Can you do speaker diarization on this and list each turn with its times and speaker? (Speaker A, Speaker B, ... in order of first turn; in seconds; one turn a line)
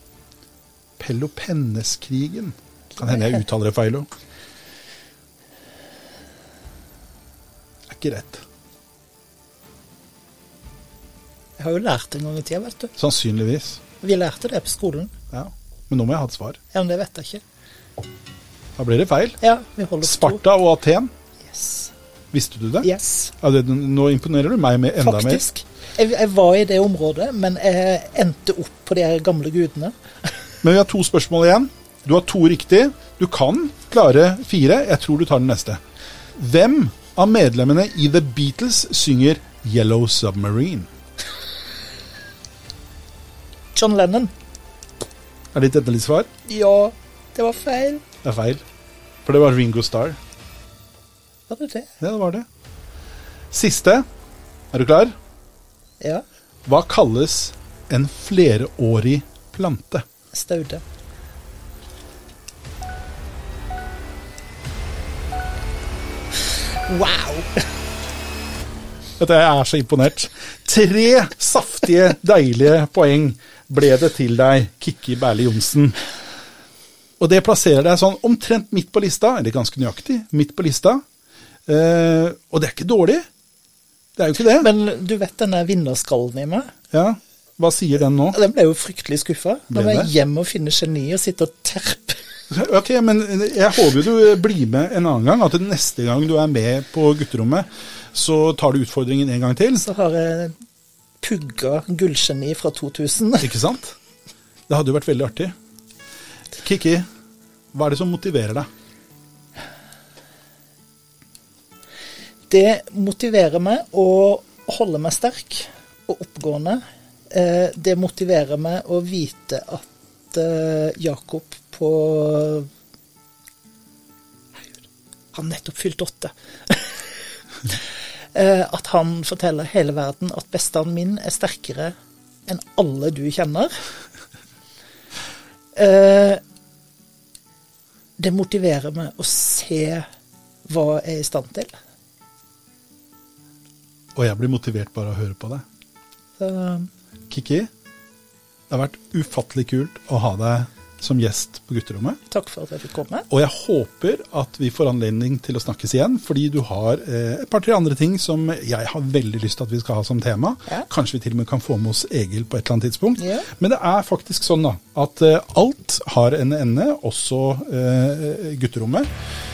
Speaker A: 1.0-4.1
Speaker A: 7.9-8.4
Speaker B: 11.6-12.9
Speaker A: 13.0-13.8
Speaker B: 14.0-15.1
Speaker A: 15.3-16.6
Speaker B: 16.7-17.4
Speaker A: 18.8-19.4
Speaker B: 19.4-20.4
Speaker A: 20.0-21.1
Speaker B: 21.4-21.9
Speaker A: 22.3-25.4
Speaker B: 22.8-23.3
Speaker B: 25.0-30.4
Speaker A: 30.6-35.8
Speaker A: 36.3-40.9
Speaker B: 43.7-44.3
Speaker A: 45.5-46.3
Speaker B: 46.5-48.0
Speaker A: 48.2-48.6
Speaker A: 49.2-50.2
Speaker B: 51.5-51.9
Speaker A: 52.0-52.5
Speaker A: 53.5-54.0
Speaker A: 54.7-55.1
Speaker A: 56.6-60.0
Speaker B: 60.3-60.8
Speaker B: 66.8-67.6
Speaker A: 69.2-76.0
Speaker A: 77.2-81.0
Speaker A: 81.7-83.3
Speaker A: 84.2-84.7
Speaker B: 84.5-86.7
Speaker A: 86.9-88.4
Speaker B: 88.3-92.2
Speaker A: 89.7-90.1
Speaker A: 92.5-99.8
Speaker B: 99.7-100.6
Speaker B: 101.2-103.6
Speaker A: 103.4-104.0
Speaker A: 104.7-105.5
Speaker A: 106.6-107.1
Speaker A: 107.7-108.7
Speaker B: 112.5-122.7
Speaker B: 125.3-131.9
Speaker B: 132.5-133.8
Speaker B: 135.7-136.4
Speaker B: 138.2-140.1
Speaker B: 140.7-141.7
Speaker A: 144.1-145.6
Speaker B: 146.4-146.9
Speaker A: 147.3-147.7
Speaker A: 148.7-152.2
Speaker B: 152.3-153.3
Speaker A: 153.3-169.1
Speaker B: 163.2-163.5